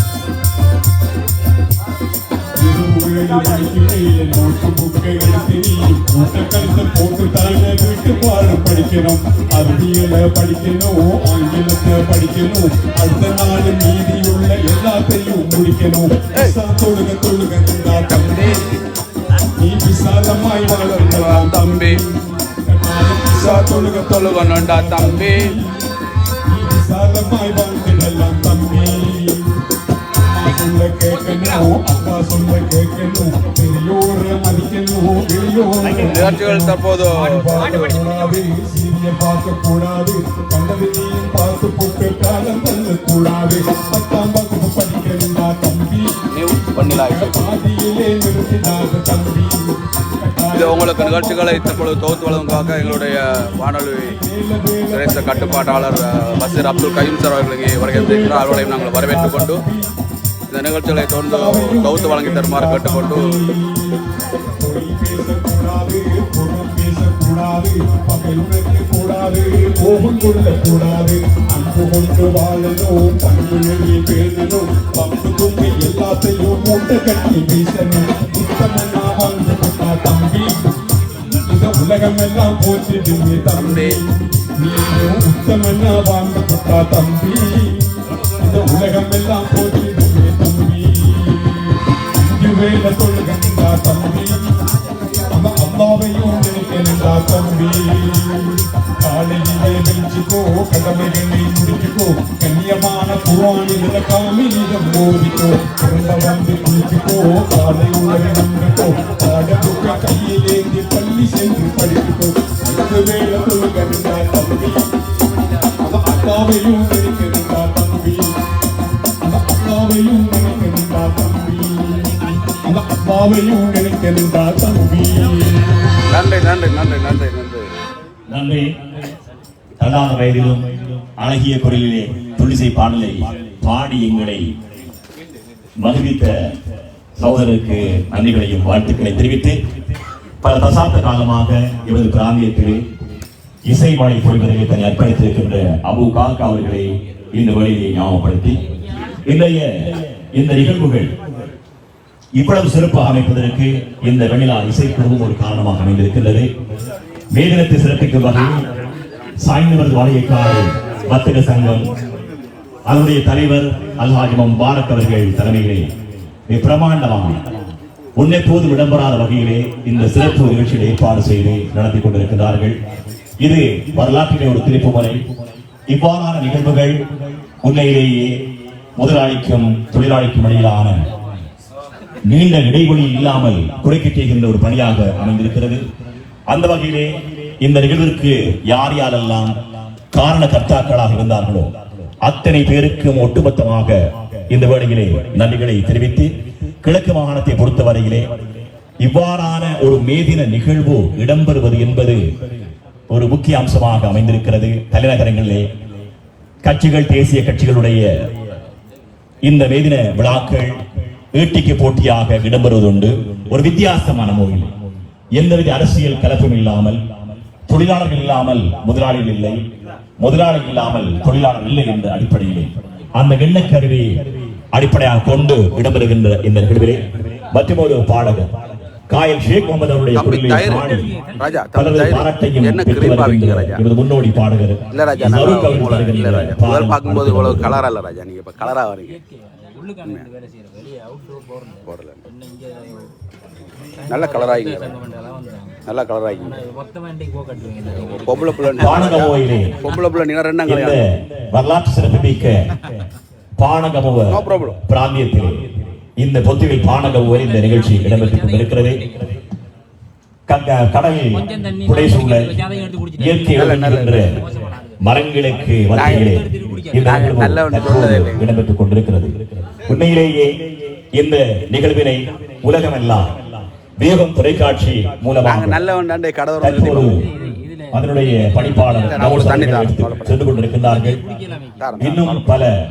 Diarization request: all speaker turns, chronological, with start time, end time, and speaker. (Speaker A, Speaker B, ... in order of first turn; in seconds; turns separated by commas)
Speaker A: 2.6-18.6, Speaker B: 18.1-18.6, Speaker A: 19.6-25.7, Speaker B: 20.7-22.0, Speaker B: 23.3-25.5, Speaker A: 26.5-29.5, Speaker A: 30.2-59.9, Speaker B: 36.0-37.9, Speaker B: 46.3-47.5, Speaker B: 50.5-54.1, Speaker B: 54.9-59.6, Speaker B: 60.5-63.3, Speaker A: 60.9-64.0, Speaker A: 64.6-80.5, Speaker A: 81.3-87.8, Speaker B: 83.5-84.0, Speaker A: 88.4-94.4, Speaker A: 95.3-114.8, Speaker A: 115.8-118.3, Speaker A: 119.2-125.7, Speaker B: 126.1-127.7, Speaker C: 128.3-128.8, Speaker C: 129.8-134.5, Speaker C: 135.8-136.5, Speaker C: 137.2-139.6, Speaker C: 140.4-142.8, Speaker C: 143.7-148.6, Speaker C: 149.2-151.1, Speaker C: 152.4-156.5, Speaker C: 157.3-158.6, Speaker C: 159.4-161.9, Speaker C: 162.9-165.9, Speaker C: 166.5-167.4, Speaker C: 168.2-172.8, Speaker C: 173.4-175.2, Speaker C: 175.9-177.0, Speaker C: 177.6-178.4, Speaker C: 179.0-181.1, Speaker C: 182.2-185.8, Speaker C: 186.5-189.6, Speaker C: 190.1-196.3, Speaker C: 196.8-198.3, Speaker C: 199.0-202.3, Speaker C: 203.1-205.7, Speaker C: 206.6-208.1, Speaker C: 209.4-210.8, Speaker C: 211.3-214.7, Speaker C: 215.3-217.0, Speaker C: 217.7-219.6, Speaker C: 220.2-228.5, Speaker C: 229.1-231.2, Speaker B: 230.2-233.8, Speaker D: 230.7-231.7, Speaker C: 231.7-237.8, Speaker B: 234.9-239.2, Speaker D: 235.3-236.2, Speaker D: 238.6-243.1, Speaker B: 241.9-242.2, Speaker D: 243.9-245.8, Speaker B: 244.1-244.9, Speaker B: 245.9-246.6, Speaker D: 246.3-249.3, Speaker B: 247.9-251.0, Speaker C: 248.8-249.8, Speaker C: 250.7-252.7, Speaker C: 253.6-259.0, Speaker B: 254.3-254.8, Speaker D: 257.0-259.4, Speaker C: 260.5-262.5, Speaker D: 261.3-265.0, Speaker C: 263.2-264.4, Speaker B: 263.5-264.3, Speaker C: 265.0-270.6, Speaker D: 265.6-267.6, Speaker B: 265.9-266.3, Speaker B: 267.0-268.4, Speaker C: 271.1-273.4, Speaker C: 274.0-275.8, Speaker B: 275.4-277.2, Speaker C: 276.6-277.2, Speaker D: 277.0-279.9, Speaker C: 277.9-281.2, Speaker B: 279.0-280.4, Speaker D: 280.7-282.3, Speaker B: 281.8-282.5, Speaker C: 282.0-282.7